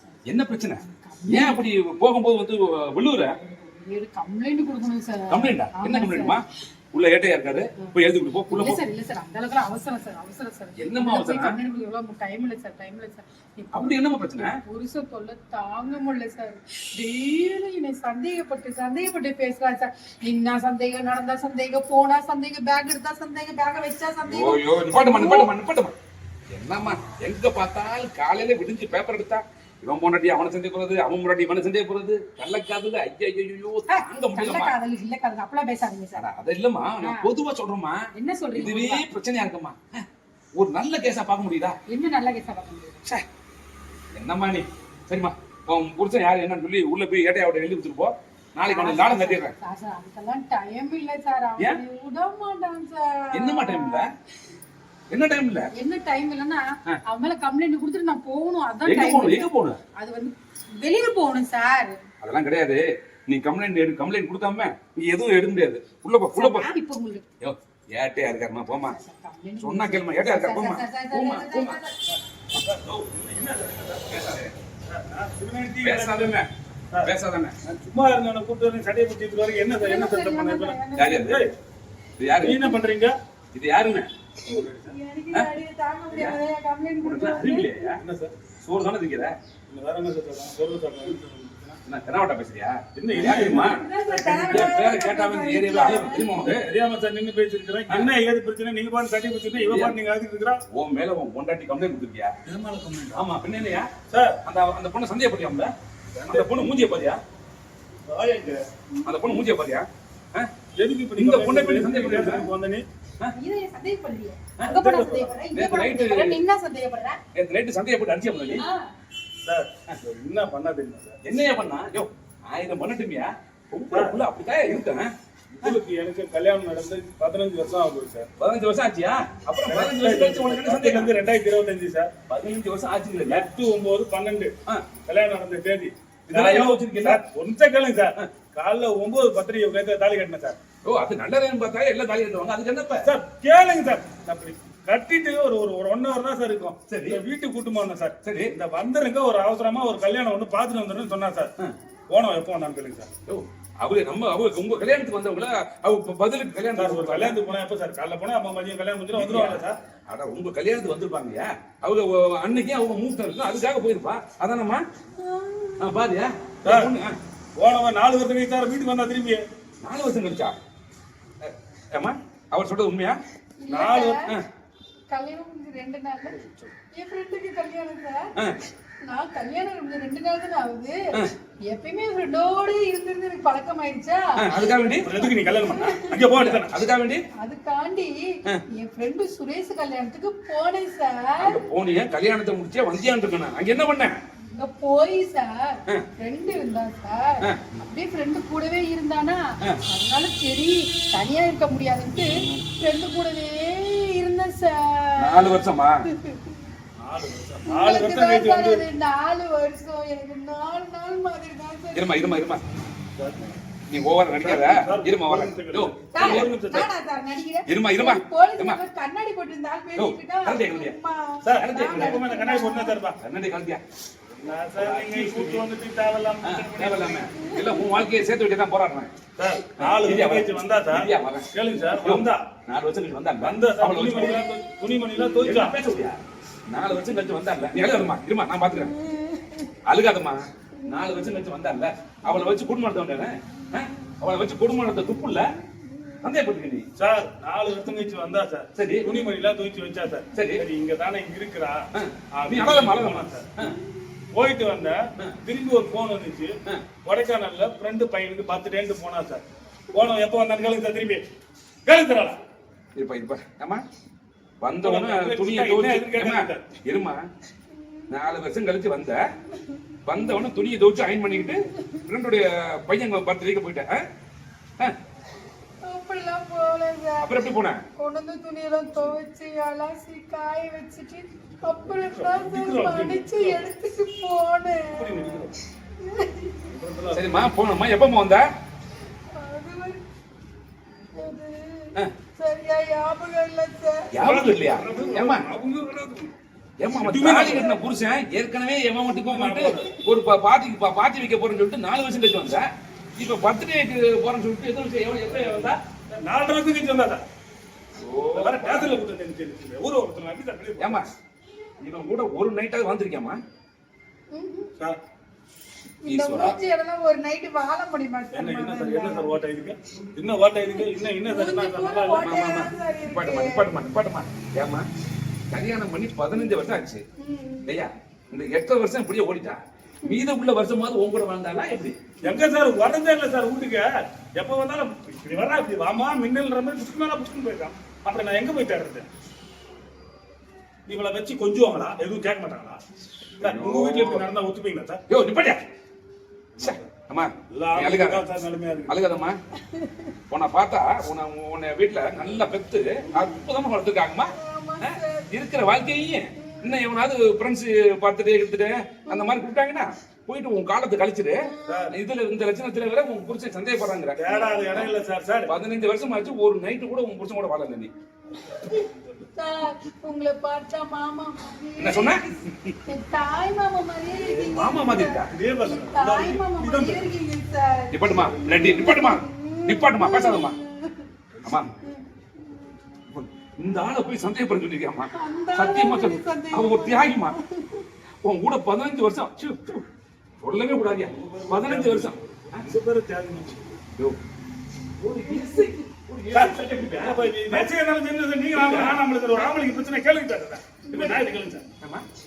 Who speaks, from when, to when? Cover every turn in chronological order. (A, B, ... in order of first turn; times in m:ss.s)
0:00.3-0:03.3 A
0:00.8-0:01.6 B
0:03.6-0:06.4 B
0:05.3-0:08.8 A
0:08.5-0:25.5 B
0:10.8-0:11.5 A
0:13.7-0:14.5 A
0:24.2-0:25.9 A
0:26.5-0:34.7 A
0:33.9-0:36.2 B
0:36.1-0:41.8 A
0:37.0-0:37.3 B
0:38.1-0:39.0 B
0:41.9-0:43.0 B
0:44.1-0:49.5 A
0:48.7-0:54.0 B
0:53.3-0:54.1 A
0:55.1-0:55.7 A
0:55.7-1:02.0 B
0:58.8-0:59.8 A
1:02.2-1:06.8 A
1:06.3-1:07.2 B
1:07.4-1:09.0 A
1:08.7-1:12.0 B
1:09.6-1:11.8 A
1:12.6-1:14.1 C
1:14.1-1:14.5 A
1:14.9-1:16.3 C
1:15.8-1:16.5 A
1:17.0-1:17.6 A
1:17.6-1:21.5 C
1:19.7-1:21.3 B
1:21.0-1:21.4 A
1:22.2-1:22.6 A
1:22.4-1:23.2 C
1:23.5-1:24.1 A
1:24.4-1:24.9 C
1:24.4-1:27.8 B
1:26.1-1:26.4 A
1:27.0-1:28.0 A
1:28.0-1:28.3 C
1:28.6-1:29.3 A
1:29.7-1:31.8 C
1:31.8-1:33.8 A
1:32.9-1:34.8 C
1:33.2-1:36.4 B
1:34.5-1:36.6 A
1:36.3-1:40.6 C
1:39.6-1:39.9 A
1:40.7-1:42.3 A
1:42.4-1:43.2 C
1:43.1-1:43.9 A
1:44.1-1:44.4 C
1:44.4-1:45.7 A
1:46.2-1:46.7 C
1:46.3-1:47.2 A
1:48.1-1:48.6 C
1:49.0-1:49.5 B
1:49.0-1:50.5 A
1:50.8-1:52.8 C
1:51.2-1:52.5 A
1:53.3-1:57.2 B
1:54.7-1:55.3 C
1:55.5-1:56.4 A
1:57.3-1:58.6 A
1:58.5-1:58.9 B
1:59.4-2:01.2 C
2:01.2-2:05.1 A
2:03.9-2:04.2 C
2:05.6-2:08.3 C
2:08.4-2:11.1 A
2:09.6-2:12.1 C
2:12.3-2:13.5 A
2:13.3-2:20.6 C
2:16.3-2:17.2 A
2:20.8-2:23.1 A
2:23.0-2:31.5 C
2:26.9-2:27.2 A
2:28.2-2:28.5 A
2:32.1-2:33.1 C
2:33.3-2:37.4 A
2:36.7-2:39.8 C
2:39.1-2:44.8 A
2:45.2-2:45.9 B
2:45.8-2:47.1 A
2:46.6-2:46.9 C
2:47.6-2:49.4 C
2:49.8-2:50.6 A
2:51.4-2:53.2 A
2:53.6-2:54.3 B
2:53.7-2:54.2 C
2:55.1-2:56.4 B
2:56.2-2:56.7 C
2:56.9-2:58.3 B
2:59.0-3:01.0 B
3:01.7-3:04.5 B
3:04.4-3:05.3 A
3:05.0-3:06.7 C
3:05.6-3:06.1 B
3:06.2-3:07.2 A
3:07.4-3:11.6 B
3:11.4-3:14.1 A
3:14.6-3:26.6 B
3:25.2-3:26.0 A
3:27.0-3:28.8 C
3:27.7-3:32.4 B
3:31.9-3:32.6 A
3:33.2-3:33.5 C
3:33.9-3:36.5 A
3:34.4-3:36.9 C
3:36.1-3:43.0 B
3:37.7-3:38.8 A
3:40.0-3:40.9 A
3:41.4-3:43.2 C
3:41.6-3:42.3 A
3:43.2-3:43.8 A
3:44.4-3:47.3 C
3:44.8-3:45.6 A
3:46.4-3:49.1 A
3:47.4-3:48.0 B
3:49.4-3:52.5 C
3:49.8-3:54.5 A
3:53.4-3:55.8 C
3:55.4-3:58.9 A
3:58.7-3:59.7 B
3:59.9-4:05.4 A
4:06.2-4:06.8 A
4:07.0-4:13.5 C
4:08.8-4:09.1 A
4:10.3-4:10.6 A
4:11.9-4:13.8 A
4:14.3-4:16.5 C
4:17.0-4:21.2 C
4:21.8-4:22.4 C
4:22.9-4:23.8 A
4:24.6-4:27.2 A
4:24.8-4:26.8 C
4:27.8-4:28.2 B
4:28.1-4:29.2 A
4:30.1-4:34.0 A
4:31.4-4:32.0 B
4:35.8-4:37.4 B
4:37.2-4:37.8 A
4:38.0-4:45.3 B
4:41.6-4:43.6 C
4:44.9-4:45.5 C
4:46.0-4:46.7 B
4:46.7-4:47.5 C
4:47.1-4:48.4 A
4:49.3-4:50.0 B
4:51.1-4:54.1 B
4:54.1-4:55.4 A
4:54.2-4:56.3 C
4:56.8-5:05.8 A
4:57.0-4:57.8 C
4:59.1-5:00.0 C
5:06.1-5:07.2 C
5:08.0-5:09.0 A
5:08.3-5:11.0 C
5:10.8-5:11.0 A
5:11.8-5:13.4 A
5:14.3-5:14.7 B
5:16.0-5:19.3 B
5:16.1-5:16.6 A
5:18.3-5:22.4 C
5:21.2-5:23.7 B
5:22.2-5:24.8 A
5:25.5-5:27.0 A
5:27.2-5:27.8 B
5:27.6-5:32.0 A
5:32.2-5:39.1 C
5:40.9-5:42.8 C
5:43.4-5:45.0 C
5:43.4-5:44.2 A
5:45.1-5:45.6 A
5:46.6-5:46.9 C
5:46.6-5:48.3 A
5:47.5-5:49.0 C
5:48.9-5:49.4 A
5:49.7-5:50.1 B
5:50.3-6:01.4 A
5:53.1-5:53.3 B
5:54.3-5:55.3 B
5:56.3-5:56.8 B
5:59.1-5:59.4 B
6:01.4-6:01.9 B
6:01.6-6:01.9 C
6:01.9-6:04.2 A
6:04.2-6:05.5 C
6:04.3-6:04.9 B
6:05.4-6:07.9 A
6:08.5-6:09.3 C
6:08.5-6:21.0 B
6:11.8-6:12.8 A
6:14.1-6:14.5 C
6:14.5-6:15.3 A
6:15.2-6:17.0 C
6:17.9-6:20.6 A
6:21.4-6:21.7 A
6:21.8-6:22.7 B
6:23.1-6:27.3 A
6:25.1-6:27.8 B
6:28.2-6:29.8 A
6:30.4-6:32.7 A
6:31.0-6:33.8 C
6:35.0-6:37.7 A
6:35.2-6:35.8 B
6:36.3-6:41.7 C
6:38.5-6:39.5 A
6:40.9-6:41.3 B
6:40.9-6:41.2 A